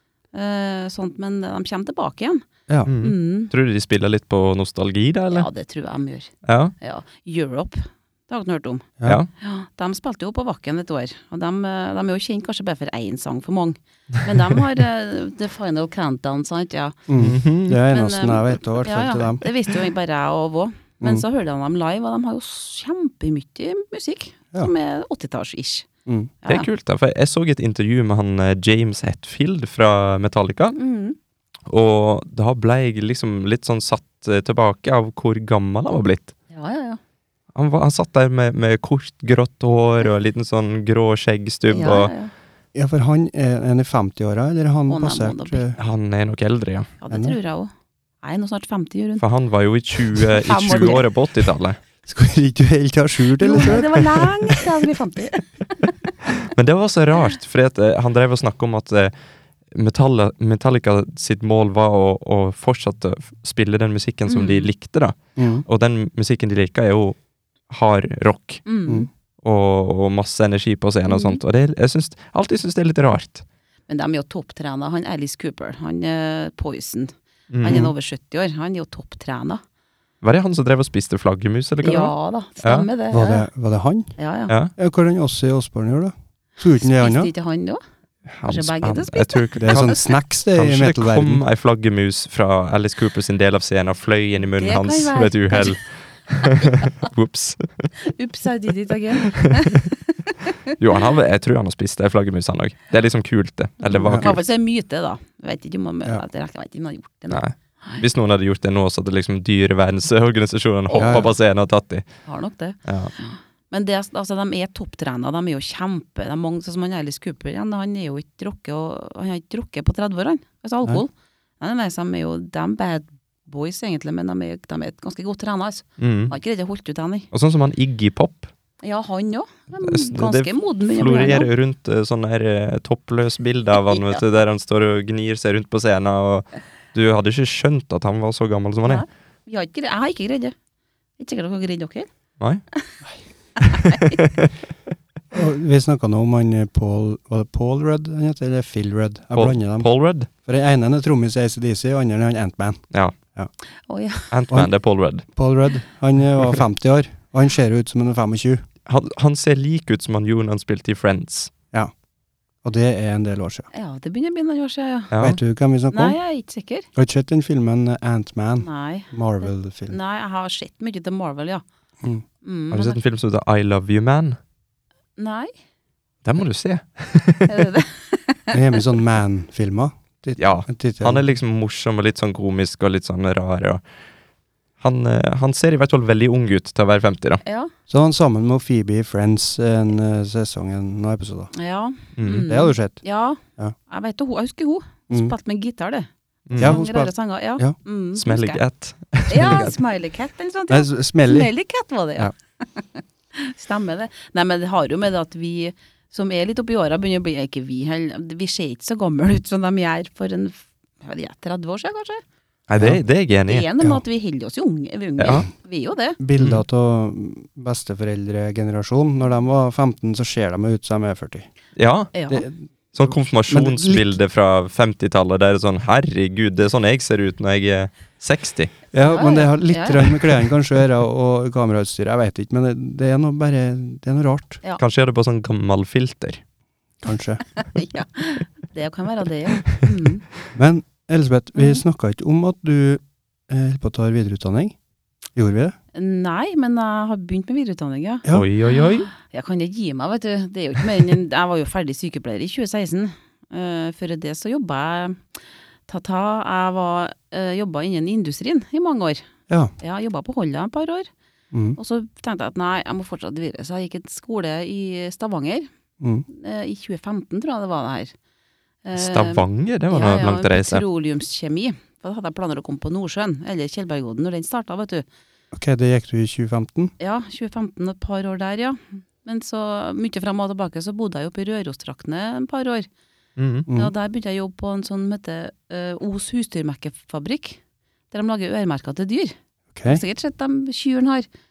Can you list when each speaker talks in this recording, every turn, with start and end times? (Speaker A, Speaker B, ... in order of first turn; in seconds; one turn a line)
Speaker A: 0.3-2.5
Speaker B: 2.9-5.5
Speaker A: 3.0-3.5
Speaker A: 5.3-8.9
Speaker B: 6.5-6.7
Speaker A: 9.4-17.0
Speaker C: 17.1-19.4
Speaker B: 17.2-17.8
Speaker A: 17.9-25.9
Speaker C: 26.1-26.3
Speaker B: 26.5-30.8
Speaker A: 30.7-31.1
Speaker B: 31.7-36.3
Speaker A: 36.5-37.0
Speaker B: 37.5-42.1
Speaker A: 41.7-42.3
Speaker C: 42.7-45.8
Speaker A: 44.9-45.6
Speaker B: 45.8-46.9
Speaker A: 47.0-47.7
Speaker C: 47.1-47.4
Speaker A: 48.2-49.2
Speaker B: 49.2-51.8
Speaker A: 50.1-51.1
Speaker C: 52.0-54.6
Speaker A: 53.4-55.9
Speaker B: 56.4-59.1
Speaker B: 59.7-67.2
Speaker A: 64.3-64.7
Speaker C: 65.4-65.6
Speaker B: 67.7-68.6
Speaker A: 68.7-69.1
Speaker B: 69.4-73.4
Speaker A: 71.1-71.4
Speaker A: 73.9-79.6
Speaker B: 77.5-77.9
Speaker C: 77.7-77.9
Speaker B: 80.2-82.9
Speaker A: 81.8-83.5
Speaker C: 83.1-84.1
Speaker A: 84.2-84.5
Speaker C: 84.8-87.3
Speaker A: 86.8-87.8
Speaker B: 88.3-97.9
Speaker A: 88.5-90.0
Speaker C: 89.6-91.4
Speaker A: 94.6-95.8
Speaker A: 96.4-96.7
Speaker A: 98.0-100.7
Speaker B: 99.3-99.9
Speaker B: 100.7-104.4
Speaker A: 103.9-108.0
Speaker C: 104.0-104.3
Speaker B: 107.3-112.1
Speaker A: 110.9-111.3
Speaker C: 110.9-111.3
Speaker A: 112.2-127.3
Speaker B: 112.8-113.1
Speaker B: 126.0-126.3
Speaker B: 127.3-128.5
Speaker A: 128.8-131.5
Speaker B: 129.8-139.0
Speaker A: 133.8-134.2
Speaker A: 138.8-140.5
Speaker A: 141.2-142.1
Speaker A: 143.6-144.2
Speaker B: 143.9-144.5
Speaker C: 145.3-149.9
Speaker B: 149.3-150.3
Speaker C: 150.4-152.8
Speaker A: 153.9-154.3
Speaker B: 154.3-155.2
Speaker C: 155.3-158.6
Speaker B: 158.8-161.5
Speaker C: 162.6-163.7
Speaker A: 163.7-165.1
Speaker B: 165.1-165.4
Speaker C: 165.2-166.2
Speaker A: 165.9-166.9
Speaker C: 166.9-170.0
Speaker A: 168.6-171.6
Speaker A: 172.4-173.0
Speaker B: 172.7-174.4
Speaker A: 175.2-175.5
Speaker B: 176.2-177.7
Speaker A: 177.5-178.5
Speaker C: 178.5-181.2
Speaker B: 180.4-183.8
Speaker B: 184.8-187.4
Speaker A: 187.4-187.7
Speaker C: 187.9-191.5
Speaker A: 191.5-198.6
Speaker B: 192.2-192.4
Speaker C: 192.4-193.0
Speaker B: 196.5-196.8
Speaker C: 196.6-197.8
Speaker B: 198.1-199.8
Speaker A: 199.3-212.2
Speaker C: 200.7-201.5
Speaker B: 212.7-213.7
Speaker A: 213.5-216.2
Speaker B: 215.2-215.4
Speaker C: 216.2-221.5
Speaker B: 221.8-222.1
Speaker A: 222.1-222.4
Speaker C: 222.3-222.6
Speaker B: 222.9-228.7
Speaker C: 223.1-224.1
Speaker C: 228.9-234.6
Speaker A: 229.0-230.1
Speaker B: 234.8-236.4
Speaker C: 237.0-237.4
Speaker A: 237.6-240.2
Speaker C: 240.5-244.8
Speaker A: 241.6-241.8
Speaker C: 245.3-245.7
Speaker A: 245.9-255.2
Speaker B: 248.3-249.1
Speaker A: 255.9-259.2
Speaker A: 259.8-261.1
Speaker C: 261.5-261.8
Speaker A: 261.8-265.7
Speaker C: 266.0-266.2
Speaker A: 266.3-268.1
Speaker A: 268.8-275.1
Speaker B: 268.9-270.8
Speaker C: 275.5-276.9
Speaker A: 277.0-282.9
Speaker B: 283.4-283.7
Speaker C: 283.7-283.9
Speaker A: 283.7-287.6
Speaker A: 288.1-291.3
Speaker C: 289.7-290.0